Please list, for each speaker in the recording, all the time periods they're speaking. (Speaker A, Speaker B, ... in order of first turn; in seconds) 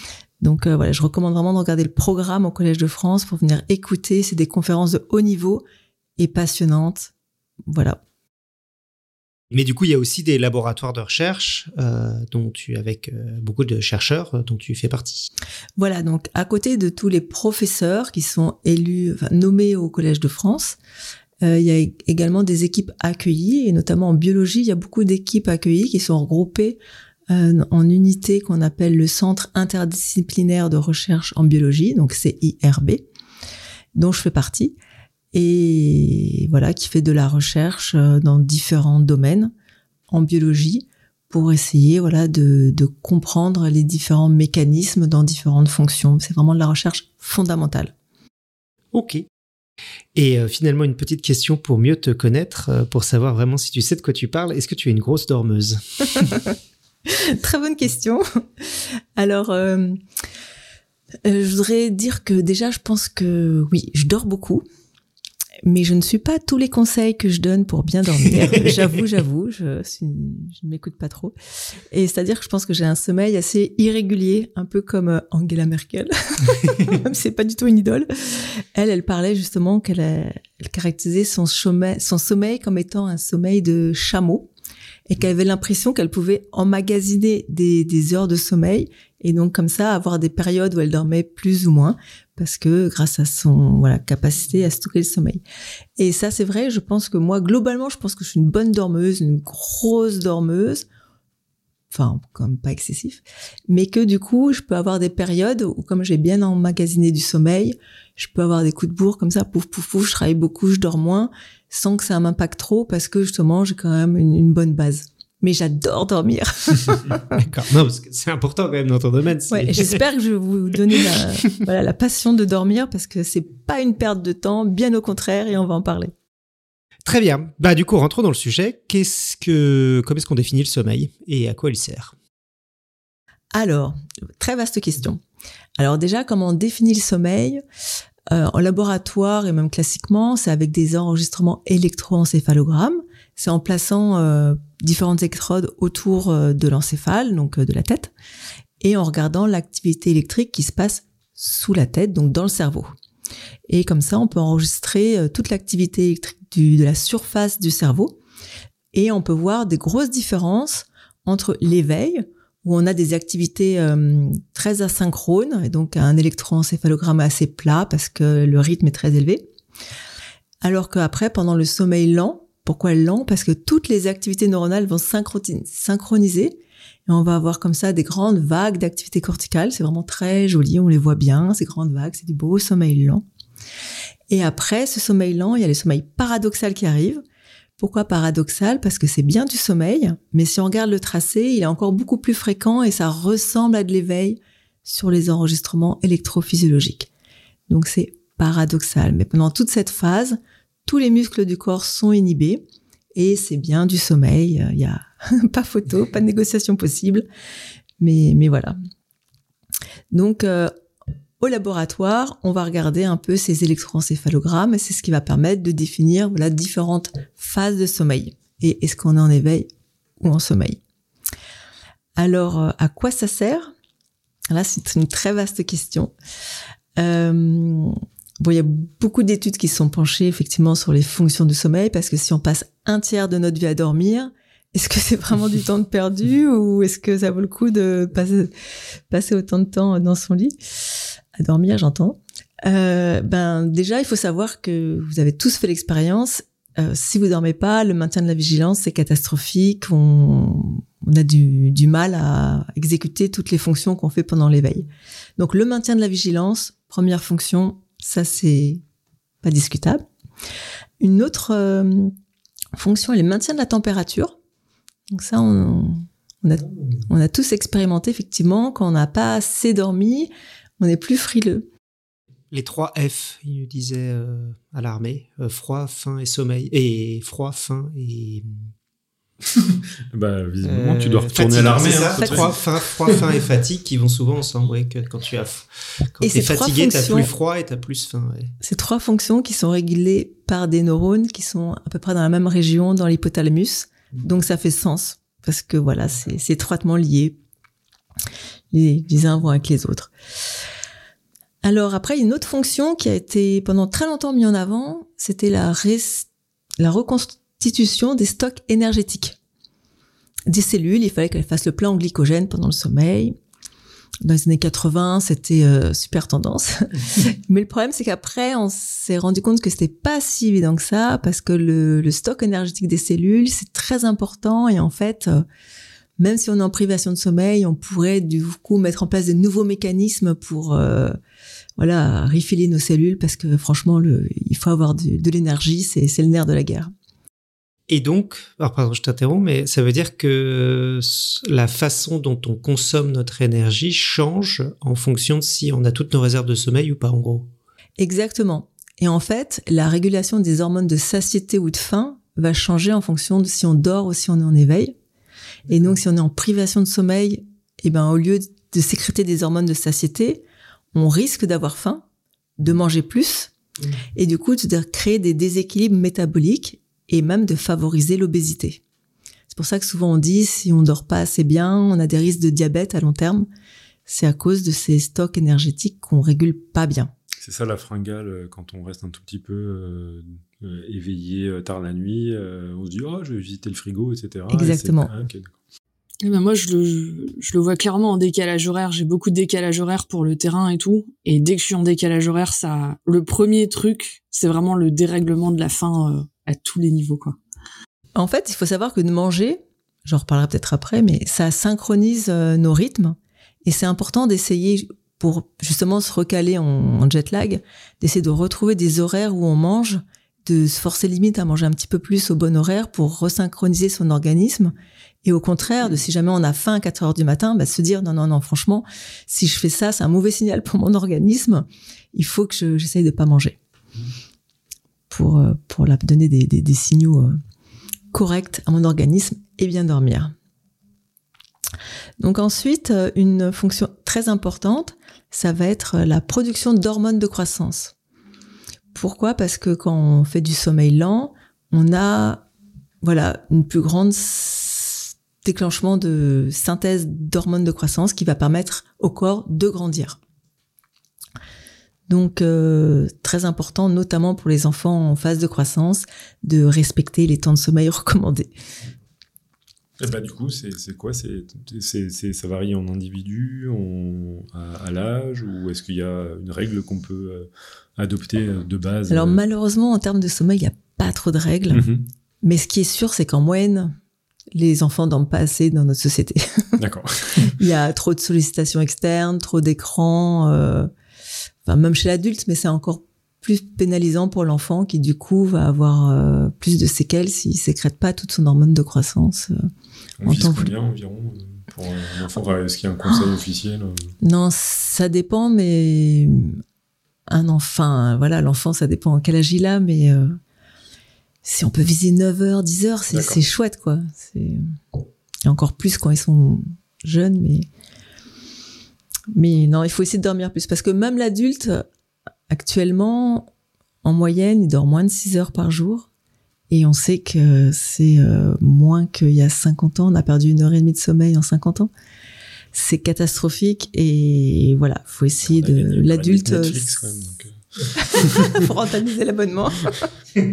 Speaker A: 0.4-5.6, 6.2-7.1, 7.7-8.0, 15.8-20.8, 21.4-26.8, 27.3-33.0, 34.0-34.8, 35.3-39.5, 40.1-47.9, 57.1-60.0, 61.2-64.7, 65.7-71.3, 71.9-84.5, 85.1-95.4, 96.0-100.8, 101.9-117.4, 119.5-126.1, 133.5-135.2, 135.8-137.6, 138.3-148.1, 148.8-152.9, 153.7-158.2, 158.9-169.5, 170.6-183.2, 184.3-187.2, 187.8-197.1, 197.7-202.6, 203.2-207.3, 208.0-208.8, 210.1-210.7, 211.4-219.7, 220.2-220.8, 222.2-223.7, 224.5-226.1, 227.0-238.5, 239.1-240.6, 241.4-258.8, 259.4-260.1, 261.0-262.1, 262.8-264.4, 265.1-271.7, 281.8-282.5, 286.2-287.3, 288.6-297.4, 298.7-300.1, 301.6-306.3, 306.8-309.4, 310.5-313.4, 314.2-325.4, 326.2-331.2, 331.8-336.9, 348.0-355.0, 355.7-362.0, 362.6-363.5, 364.2-368.8, 369.5-373.5, 374.1-377.1, 384.5-385.1, 398.1-423.6, 425.1-427.4, 428.1-430.4, 432.2-437.9, 438.9-442.4, 443.0-450.2, 452.1-458.5, 469.1-471.8, 472.4-473.9, 474.6-476.7, 477.4-480.9, 481.6-489.7, 490.3-490.7, 494.2-496.6, 497.3-500.4, 501.4-504.6, 505.4-507.7, 509.3-511.8, 512.5-513.5, 514.0-516.1, 516.7-521.9, 522.7-527.1, 528.0-530.1
Speaker B: 9.5-15.3, 48.9-49.3, 50.1-56.3, 117.4-120.0, 120.9-121.2, 127.0-132.2, 272.5-278.6, 280.6-288.6, 337.9-347.5
Speaker C: 280.1-282.5, 377.4-385.5, 460.0-469.4, 471.7-472.0, 476.8-477.5, 490.2-494.1, 503.1-503.4, 525.5-528.6
Speaker D: 386.2-397.4